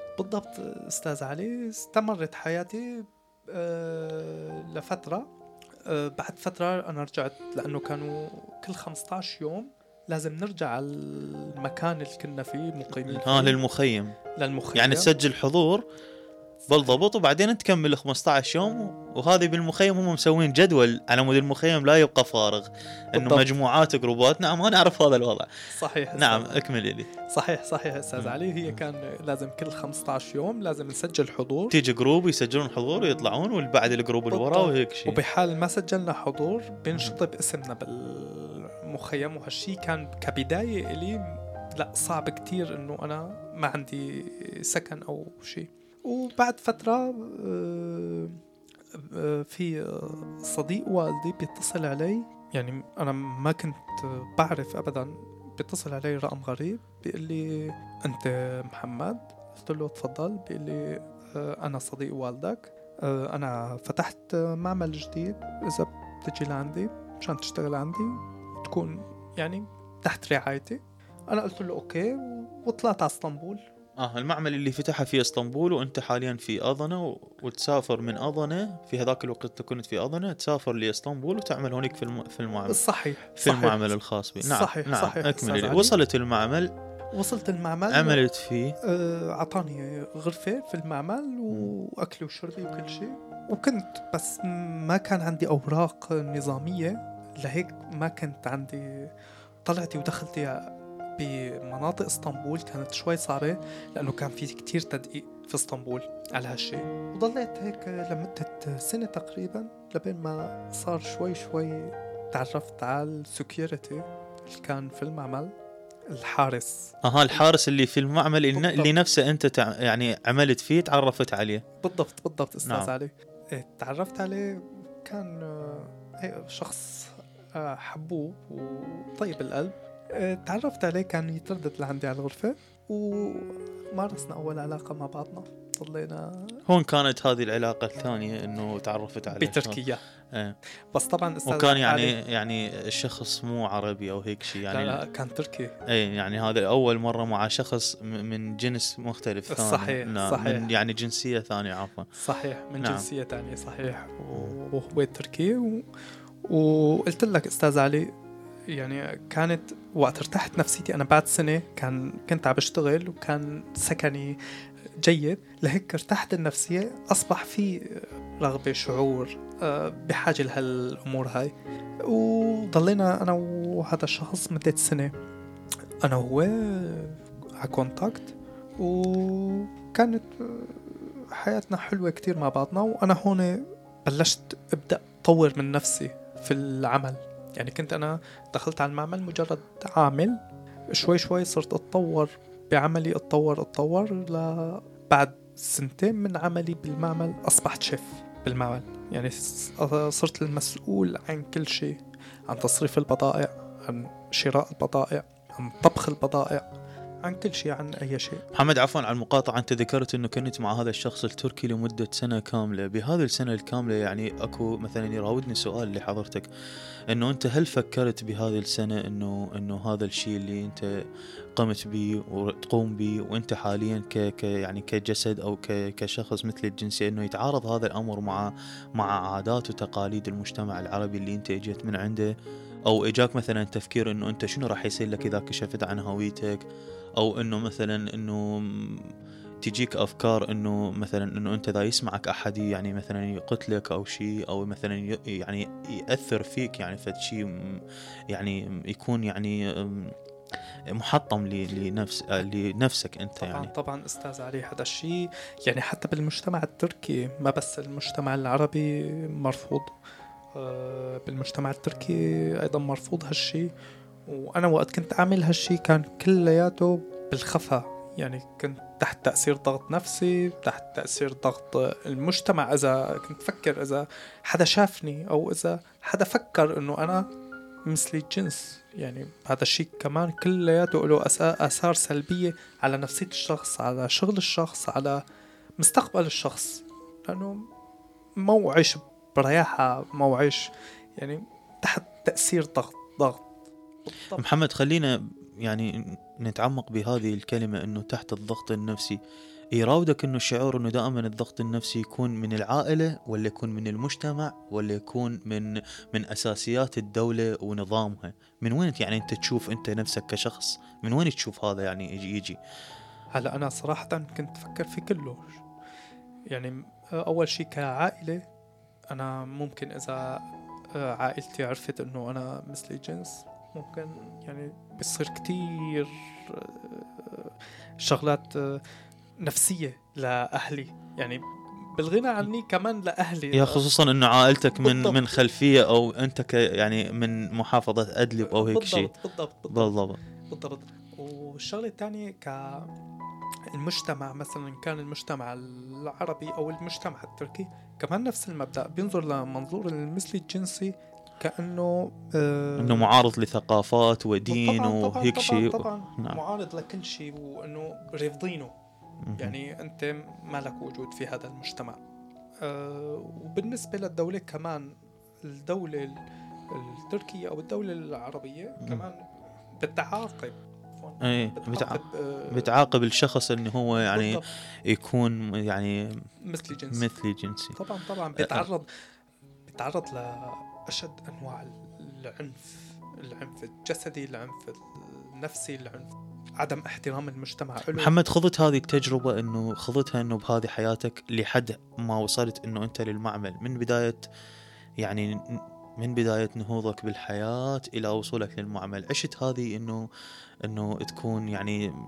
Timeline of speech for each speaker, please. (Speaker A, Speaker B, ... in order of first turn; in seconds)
Speaker A: 0.2-5.3, 5.9-13.6, 14.4-15.1, 23.2-23.5, 25.7-26.6, 27.3-31.7, 34.3-48.4, 48.9-70.8, 71.3-73.6, 82.7-86.0, 87.1-88.2, 88.8-99.1, 99.7-100.6, 101.2-115.5, 116.1-117.4, 118.5-118.9, 121.8-136.6, 139.3-140.0, 140.9-142.2, 144.5-145.8, 149.5-150.7, 152.2-155.8, 156.5-158.1, 158.7-164.4, 165.0-171.5, 172.1-175.1, 176.0-190.4, 190.9-206.7, 207.2-208.4, 253.4-259.9, 260.6-263.7, 264.3-277.2, 277.9-285.2, 285.8-287.6, 288.4-293.5, 294.1-294.5, 313.4-315.6, 316.5-318.4, 319.1-320.4, 320.9-328.8, 329.4-333.9, 334.8-335.2, 338.4-340.0, 340.5-342.9, 343.7-353.1, 354.5-358.7, 359.4-362.0, 362.6-364.9, 365.4-366.2, 366.7-369.2, 369.8-372.7, 374.0-374.4, 376.4-377.1, 377.8-378.9, 379.7-388.1
Speaker B: 12.9-14.2, 14.8-15.8, 16.7-25.5, 26.2-27.1, 31.7-35.2, 74.0-82.8, 83.4-86.7, 87.9-88.8, 117.0-121.6, 122.7-122.9, 136.7-139.8, 141.5-145.0, 145.9-152.1, 152.8-153.1, 208.5-216.5, 217.1-220.9, 221.6-232.3, 232.9-236.6, 237.2-239.1, 239.6-247.8, 248.3-250.1, 250.9-253.7, 294.4-299.2, 299.8-312.6, 333.5-339.1, 339.7-340.2, 352.8-356.4, 359.2-359.6, 371.2-372.0, 372.5-376.0, 376.9-377.8, 378.4-378.7, 387.9-394.3, 395.0-400.0, 400.7-401.8